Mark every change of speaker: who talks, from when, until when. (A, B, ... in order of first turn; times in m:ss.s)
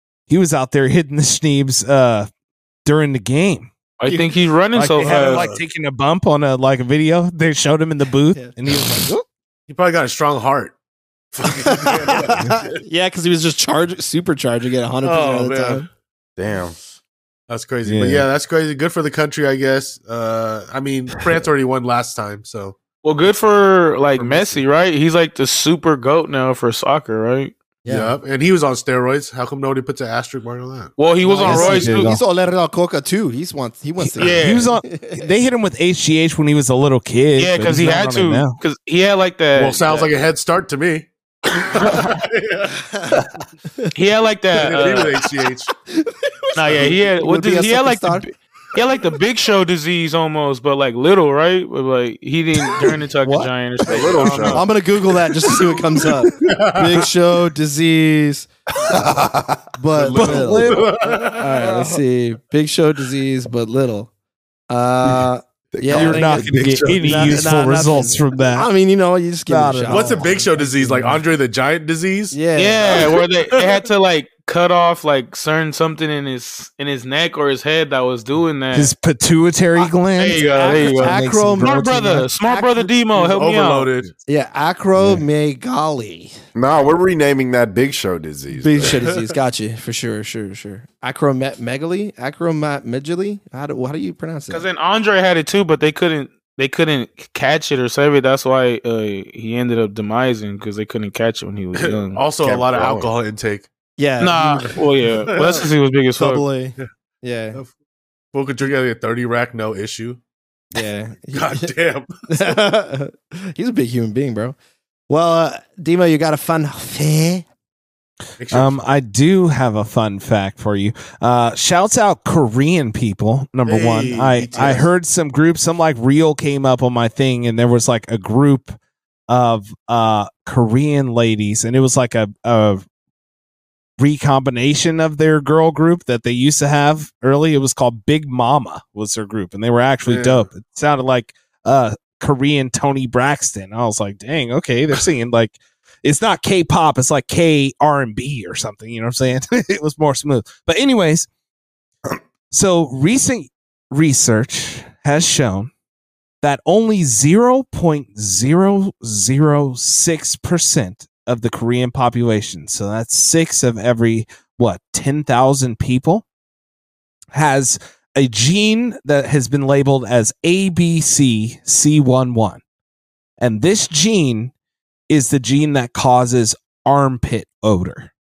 0:00.3-0:02.3 A
0:02.8-0:03.7 A
0:04.0-0:05.4 B
0:04.1-0:04.3 C
0:04.7-0:09.2 A
0:05.0-0:05.6 D
0:09.7-0:10.8 D
0:11.3-0:12.8 D
0:11.5-0:15.9 C
0:15.0-0:15.8 D
0:16.4-0:16.8 E
0:17.5-0:22.8 D
0:17.8-0:18.3 A
0:23.0-0:27.6 B
0:24.2-0:24.6 D
0:27.8-0:28.1 C
0:27.9-0:31.0 D
0:31.0-0:32.2 B
0:31.2-0:35.3 C
0:31.4-0:32.2 A
0:34.0-0:38.6 A
0:34.2-0:34.7 B
0:37.4-0:40.1 B
0:39.6-0:42.9 D
0:43.9-0:45.2 B
0:44.6-0:45.7 D
0:45.9-0:48.3 C
0:46.6-0:54.7 B
0:53.2-0:53.5 A
0:53.8-0:54.6 E
0:54.2-0:54.5 D
0:54.5-0:58.5 C
0:56.4-0:57.1 D
0:58.9-0:59.6 E
0:59.8-1:04.1 C
1:00.0-1:01.5 D
1:00.1-1:01.0 A
1:01.6-1:02.0 A
1:04.7-1:11.2 C
1:05.7-1:07.4 E
1:05.9-1:08.7 A
1:09.5-1:10.2 A
1:09.9-1:13.2 D
1:12.3-1:13.0 C
1:12.6-1:18.9 B
1:18.7-1:22.3 A
1:20.2-1:23.9 B
1:20.4-1:22.9 C
1:23.1-1:24.1 D
1:24.3-1:26.4 C
1:26.6-1:29.0 E
1:28.5-1:34.6 C
1:28.8-1:29.2 D
1:34.5-1:42.2 B
1:41.8-1:43.7 D
1:42.4-1:43.1 E
1:44.0-1:44.8 C
1:44.2-1:46.4 B
1:45.2-1:45.7 D
1:46.2-1:47.6 C
1:48.3-1:50.2 D
1:50.7-1:51.7 C
1:51.3-1:52.6 D
1:52.3-1:54.6 C
1:55.1-1:57.4 C
1:58.4-1:58.9 D
1:58.5-2:08.8 A
2:03.6-2:04.9 D
2:04.5-2:04.8 C
2:09.3-2:12.8 A
2:14.0-2:31.3 A
2:20.0-2:20.5 D
2:32.5-2:35.7 A
2:36.4-2:46.2 A
2:47.3-2:52.6 A
2:53.4-2:54.5 A
2:55.1-2:58.1 A